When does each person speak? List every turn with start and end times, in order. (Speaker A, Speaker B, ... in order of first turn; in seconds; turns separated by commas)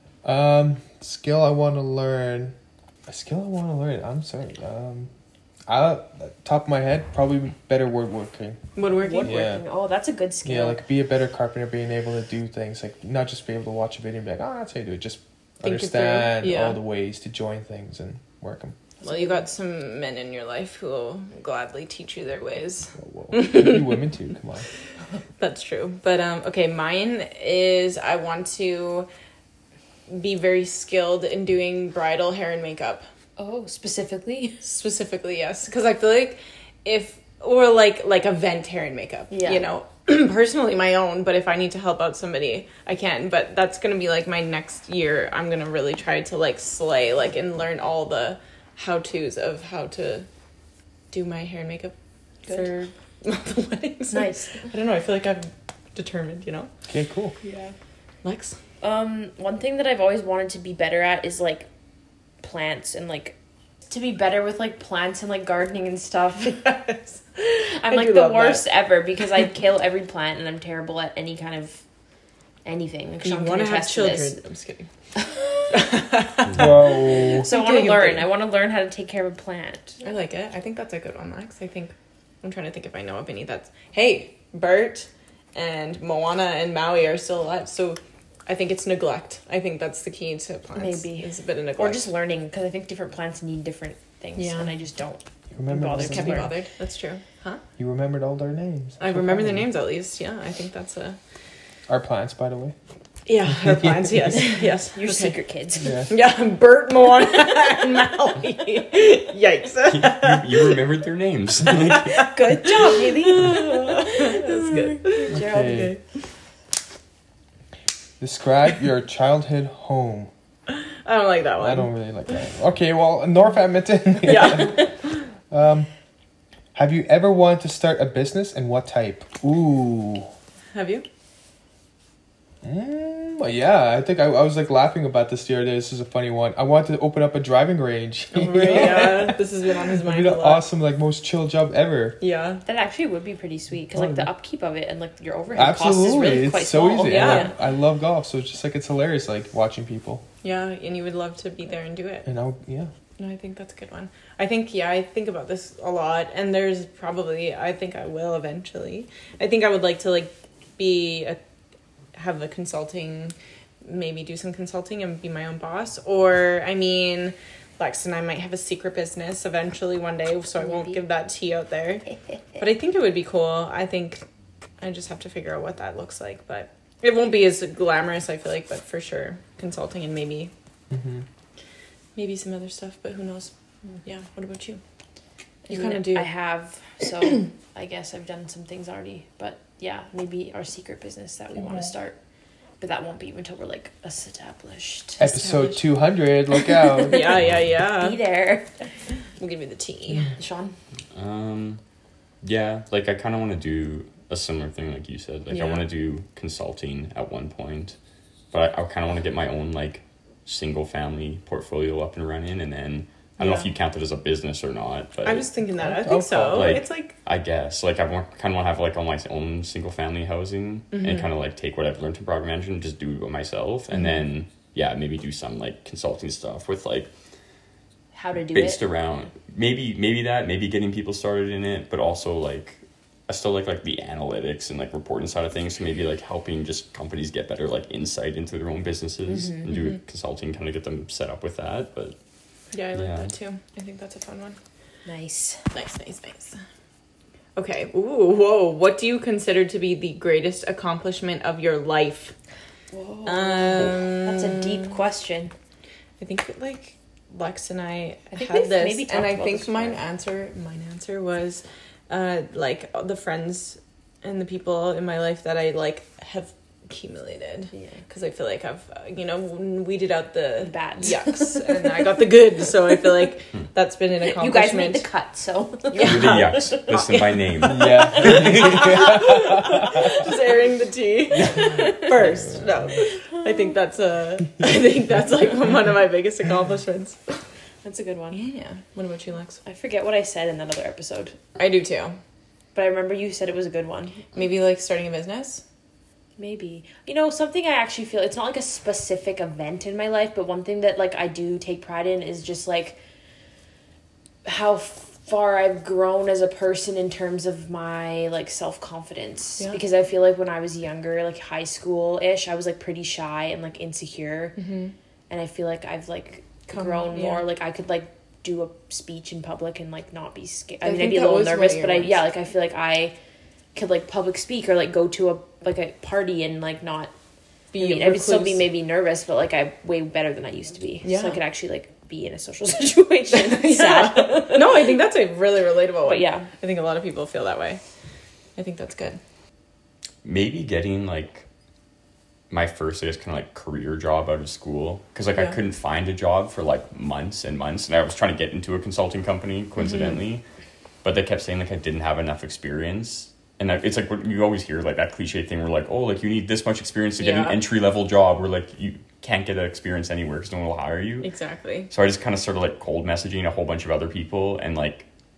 Speaker A: 0.2-2.5, Speaker A: 3.1-5.1, Speaker A: 5.7-8.7, Speaker B: 8.8-9.5, Speaker C: 9.0-10.8, Speaker A: 9.2-9.6, Speaker A: 10.4-18.8, Speaker B: 15.6-16.8, Speaker C: 19.0-19.4, Speaker B: 19.0-24.0, Speaker A: 23.0-24.7, Speaker B: 25.4-29.1, Speaker B: 30.1-33.1, Speaker C: 33.4-34.6, Speaker B: 34.6-50.3, Speaker C: 39.3-39.6, Speaker B: 51.1-51.9, Speaker C: 52.5-52.8, Speaker B: 52.5-56.7, Speaker C: 54.1-54.6, Speaker A: 56.9-57.3, Speaker B: 58.2-58.6, Speaker C: 58.8-61.7, Speaker C: 62.4-63.4, Speaker C: 63.9-71.8, Speaker B: 67.9-68.6, Speaker C: 72.7-74.4, Speaker B: 73.2-74.9, Speaker B: 75.7-78.3, Speaker A: 76.5-77.5, Speaker C: 77.0-80.0, Speaker B: 80.0-92.1, Speaker C: 90.8-96.5, Speaker B: 94.4-94.7, Speaker A: 95.5-96.5, Speaker B: 95.9-97.6, Speaker A: 97.8-99.7, Speaker B: 99.0-101.2, Speaker A: 101.9-102.8, Speaker B: 103.3-105.4, Speaker A: 103.6-104.2, Speaker C: 104.4-105.9, Speaker A: 105.8-106.1, Speaker B: 106.1-110.8, Speaker D: 109.9-112.3, Speaker B: 111.7-116.0, Speaker C: 112.2-115.9, Speaker A: 115.3-116.0, Speaker A: 118.2-120.3, Speaker B: 121.0-121.9, Speaker A: 121.6-124.9, Speaker B: 124.2-125.2, Speaker A: 125.5-125.9, Speaker A: 126.8-130.3, Speaker B: 130.7-131.1, Speaker A: 132.6-139.4, Speaker B: 138.3-140.6, Speaker A: 140.0-142.2, Speaker B: 142.2-142.6, Speaker C: 142.7-147.5, Speaker A: 143.9-144.3, Speaker A: 145.6-150.2, Speaker B: 147.1-147.5, Speaker B: 150.4-152.3, Speaker A: 152.2-152.9, Speaker B: 153.2-161.4, Speaker B: 162.2-172.1, Speaker C: 170.6-171.0, Speaker B: 172.6-174.2, Speaker B: 174.8-180.5, Speaker A: 180.9-181.2, Speaker B: 182.2-183.5, Speaker B: 184.1-184.8, Speaker B: 185.7-186.3, Speaker C: 185.7-192.2, Speaker C: 192.8-195.3, Speaker A: 195.2-197.5, Speaker B: 195.2-195.8, Speaker C: 196.9-198.7, Speaker B: 197.0-198.2, Speaker B: 199.4-200.3, Speaker C: 200.3-200.8, Speaker D: 201.2-201.8, Speaker D: 202.4-208.0, Speaker B: 205.5-205.9, Speaker D: 208.5-215.5, Speaker B: 213.4-213.7, Speaker B: 215.2-217.2, Speaker A: 215.8-216.8, Speaker D: 216.5-227.1, Speaker B: 220.9-221.3, Speaker C: 228.1-228.8, Speaker D: 228.5-242.2, Speaker C: 239.3-239.7, Speaker B: 242.7-244.6, Speaker D: 242.9-243.3, Speaker C: 245.1-245.6, Speaker B: 245.7-246.6, Speaker B: 247.6-252.3, Speaker C: 252.9-255.5, Speaker B: 253.3-254.9, Speaker B: 256.2-275.1, Speaker C: 258.3-260.0, Speaker C: 270.6-271.8, Speaker C: 274.2-277.0, Speaker B: 275.9-287.4, Speaker D: 276.0-278.8, Speaker A: 277.6-280.1, Speaker C: 278.2-279.1, Speaker C: 281.5-282.2, Speaker C: 287.8-288.4, Speaker B: 288.3-289.6, Speaker C: 289.6-291.4, Speaker B: 291.6-292.2, Speaker C: 292.8-294.2, Speaker B: 294.3-295.6, Speaker C: 296.4-303.0, Speaker C: 304.4-314.6, Speaker B: 314.6-314.9, Speaker C: 315.3-323.1, Speaker B: 316.7-317.4, Speaker B: 320.8-322.2, Speaker C: 323.8-327.1, Speaker B: 327.7-328.6, Speaker C: 327.8-334.9, Speaker B: 331.0-331.4, Speaker B: 333.3-337.8, Speaker C: 336.1-336.5, Speaker B: 338.6-339.2, Speaker D: 340.2-341.5, Speaker D: 342.5-350.4, Speaker D: 351.0-361.3, Speaker B: 357.2-357.6, Speaker B: 361.2-361.9, Speaker D: 361.9-365.1